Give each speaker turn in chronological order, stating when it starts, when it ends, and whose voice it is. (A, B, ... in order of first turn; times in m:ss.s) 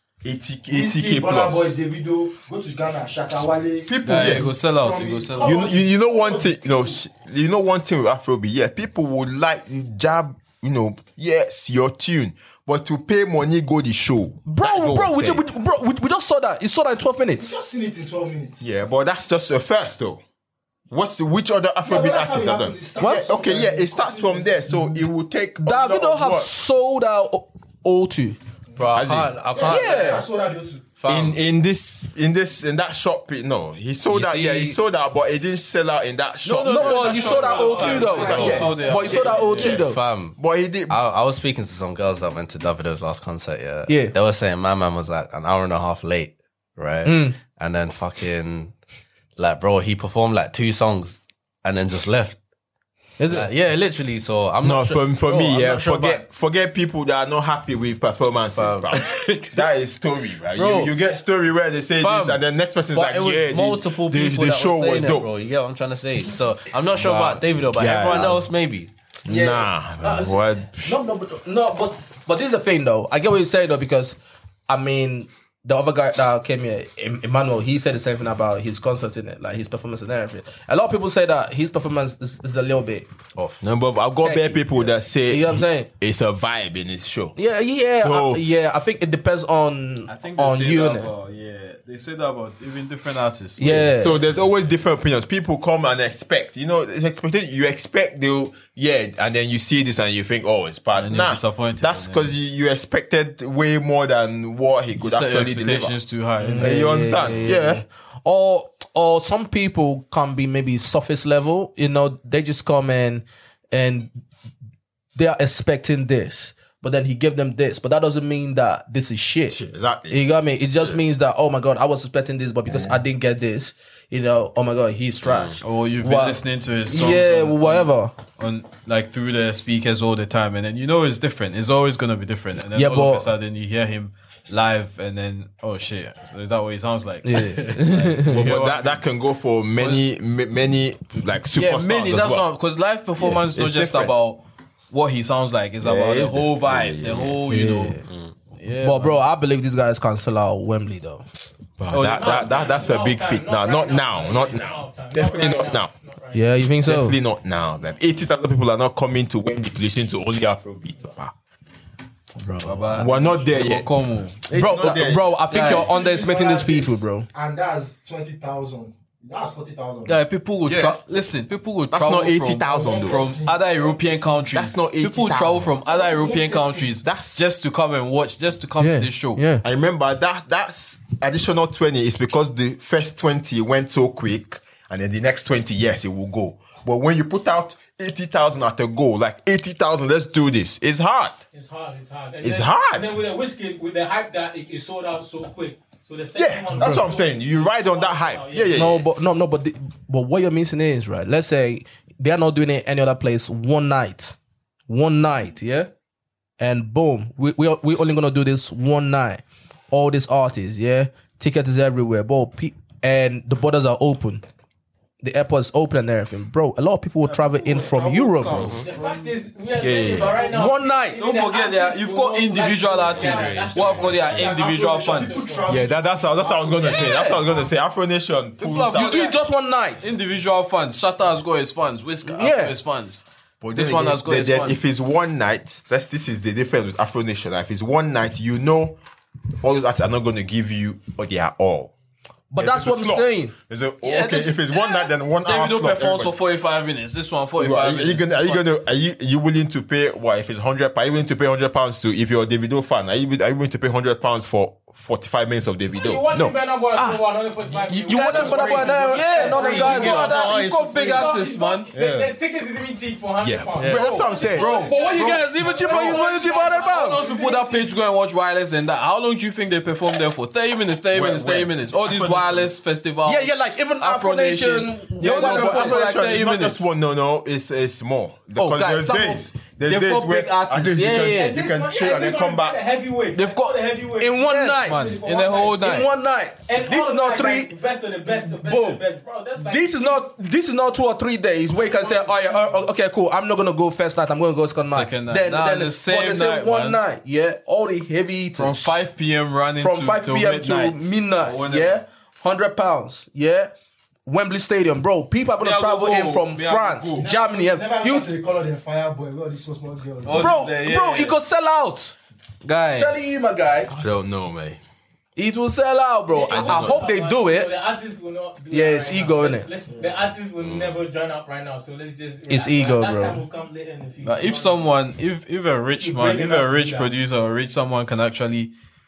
0:00.2-0:01.8 A
0:00.7-0:07.0 B
0:03.9-0:04.5 A
0:04.0-0:05.7 C
0:05.4-0:15.4 A
0:14.4-0:17.5 D
0:17.4-0:18.6 B
0:18.6-0:20.2 A
0:20.9-0:26.5 A
0:21.8-0:25.0 B
0:23.0-0:23.3 D
0:25.6-0:28.4 D
0:28.8-0:30.2 E
0:28.9-0:29.5 A
0:29.5-0:30.9 B
0:29.6-0:30.2 D
0:31.0-0:31.4 E
0:31.1-0:41.0 A
0:34.1-0:34.8 D
0:36.4-0:39.8 C
0:36.6-0:40.0 D
0:37.2-0:39.2 B
0:39.8-0:48.7 E
0:43.9-0:44.1 D
0:47.0-0:47.4 D
0:49.4-0:52.4 E
0:53.2-0:53.5 D
0:53.3-0:56.2 E
0:54.6-1:05.3 A
0:58.5-0:59.7 E
1:00.6-1:00.9 E
1:02.0-1:02.4 E
1:02.9-1:08.9 E
1:06.9-1:08.5 A
1:09.2-1:11.0 A
1:09.3-1:14.2 D
1:14.7-1:23.1 D
1:23.4-1:23.6 E
1:23.6-1:27.4 A
1:24.2-1:25.9 D
1:27.4-1:31.1 D
1:27.9-1:28.4 A
1:30.1-1:34.0 C
1:33.6-1:34.2 D
1:33.9-1:45.9 A
1:40.9-1:42.3 C
1:45.0-1:47.3 C
1:46.4-1:54.2 D
1:46.6-1:47.8 A
1:55.1-1:59.6 D
1:59.5-2:01.0 A
2:00.1-2:08.2 D
2:02.7-2:03.0 A
2:05.2-2:05.6 E
2:05.6-2:19.0 C
2:12.7-2:13.3 D
2:17.2-2:18.5 D
2:18.3-2:22.5 A
2:19.8-2:20.1 C
2:21.5-2:28.0 C
2:23.2-2:24.1 A
2:25.8-2:26.4 D
2:26.6-2:27.2 A
2:27.0-2:27.3 E
2:27.4-2:28.0 D
2:28.0-2:28.4 E
2:28.5-2:29.2 C
2:28.8-2:31.2 D
2:31.8-2:35.9 A
2:31.9-2:32.6 C
2:31.9-2:36.4 F
2:36.3-2:37.2 D
2:36.8-2:41.3 A
2:42.4-2:43.0 D
2:42.6-2:45.9 C
2:42.9-2:45.4 A
2:44.5-2:47.3 D
2:45.5-2:50.2 B
2:50.0-2:59.4 C
2:50.6-2:51.0 A
2:51.9-2:53.4 A
2:52.6-2:54.3 B
2:54.5-2:57.4 A
2:55.8-2:56.8 B
2:58.8-2:59.6 D
2:59.6-3:11.4 A
3:11.5-3:19.0 F
3:12.4-3:13.2 A
3:16.4-3:19.0 A
3:18.7-3:24.4 D
3:24.9-3:25.9 D
3:26.6-3:34.4 D
3:35.2-3:38.7 D
3:37.2-3:39.3 C
3:38.5-3:38.9 E
3:38.8-3:45.6 F
3:39.8-3:40.4 A
3:40.5-3:41.2 D
3:41.1-3:45.6 C
3:43.3-3:44.3 E
3:44.3-3:47.6 B
3:45.6-3:49.3 A
3:47.0-3:47.3 D
3:48.6-3:49.4 C
3:48.9-3:50.2 D
3:50.0-3:54.8 C
3:52.2-3:52.8 D
3:53.6-3:59.0 A
3:59.6-4:01.9 A
4:02.5-4:03.5 D
4:02.6-4:06.4 A
4:04.0-4:08.7 C
4:07.6-4:16.5 A
4:16.0-4:27.9 F
4:17.0-4:17.2 D
4:17.9-4:22.0 C
4:18.0-4:20.6 D
4:22.0-4:22.3 E
4:23.4-4:25.4 A
4:23.8-4:24.0 E
4:23.9-4:27.2 D
4:24.6-4:36.9 C
4:31.1-4:32.7 A
4:33.2-4:36.1 D
4:35.2-4:42.8 A
4:38.6-4:41.6 C
4:41.3-4:45.8 F
4:43.3-4:43.8 C
4:44.2-4:45.2 D
4:44.4-4:46.1 C
4:45.8-4:47.7 D
4:46.7-4:50.2 F
4:48.2-4:49.0 D
4:49.6-4:59.0 D
4:51.8-4:52.8 F
4:54.9-4:57.0 C
4:58.6-5:02.0 C
4:59.8-5:03.7 D
5:04.2-5:08.3 D
5:05.6-5:07.2 C
5:07.2-5:10.7 B
5:10.2-5:11.4 C
5:10.3-5:12.2 D
5:12.6-5:13.1 C
5:12.9-5:13.9 D
5:13.9-5:14.8 A
5:15.4-5:17.7 D
5:16.3-5:24.9 F
5:16.5-5:17.0 A
5:18.7-5:19.7 D
5:20.6-5:21.0 E
5:22.5-5:23.4 D
5:24.2-5:28.7 C
5:26.0-5:27.1 F